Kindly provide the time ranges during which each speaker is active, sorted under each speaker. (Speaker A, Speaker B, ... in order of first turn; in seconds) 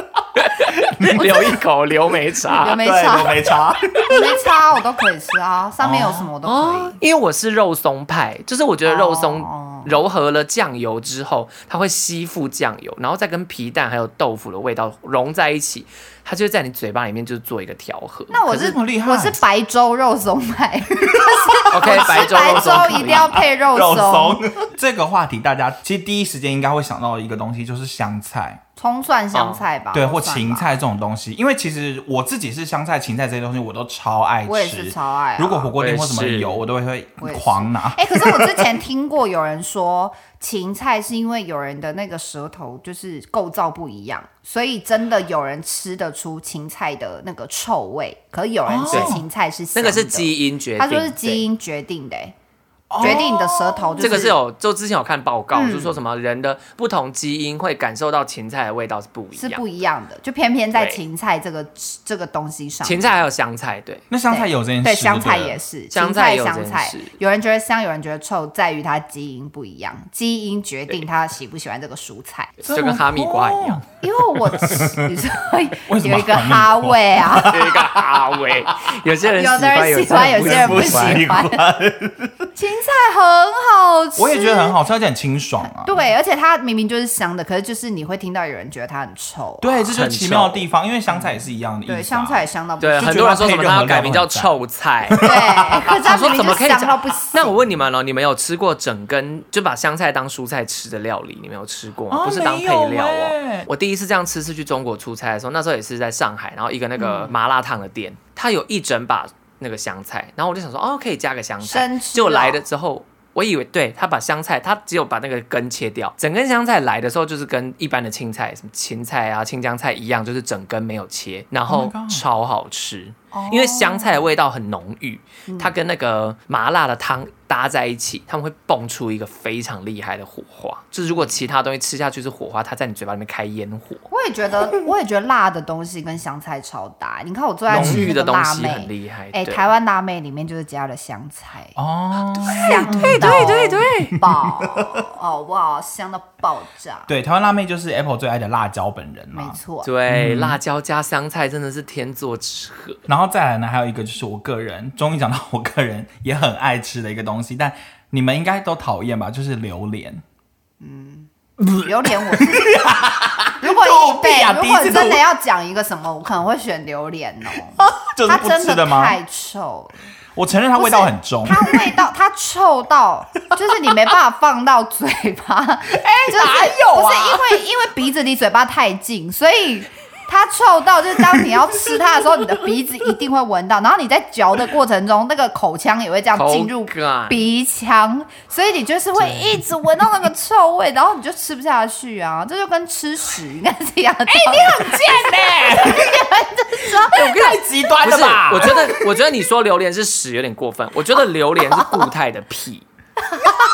Speaker A: 0.3-2.8, 6.4-18.7, 21.7-23.4, 29.3-29.6, 35.8-36.6, 48.9-49.2, 49.7-51.4, 54.0-59.6, 60.7-61.0, 62.8-64.0, 65.9-67.1, 72.6-73.8, 77.4-81.2, 89.9-90.7, 92.8-95.3, 96.0-134.0, 137.7-139.7, 142.4-144.2, 149.8-153.0, 186.3-187.4, 197.1-202.9
Speaker B: 0.7-1.6, 2.6-4.2, 5.8-6.3, 18.5-19.4, 21.0-28.6, 29.9-38.6, 48.7-49.2, 52.9-54.3, 64.1-65.6, 72.6-73.8, 74.3-75.2, 75.9-78.2, 80.1-82.5, 84.2-85.9, 89.6-92.5, 93.0-94.5, 95.1-96.1, 102.1-103.7, 121.7-122.2, 137.7-138.1, 141.8-145.0, 147.1-150.6, 153.1-160.2, 161.6-165.2, 167.8-169.2, 170.3-172.0, 175.9-177.6, 181.2-182.6, 189.2-189.5, 194.3-196.3, 196.8-199.1
Speaker C: 2.6-7.0, 8.8-9.9, 18.3-24.4, 28.8-30.7, 34.5-35.7, 37.2-52.3, 53.0-54.4, 55.5-56.0, 59.3-63.2, 64.3-72.5, 74.0-77.5, 79.3-81.6, 82.5-84.8, 85.8-89.9, 91.8-93.2, 95.2-97.6, 107.0-107.3, 111.6-112.6, 123.3-124.2, 125.5-125.7, 134.1-141.8, 142.4-147.1, 149.3-149.9, 160.8-162.8, 163.6-170.0, 170.7-197.5, 201.7-202.1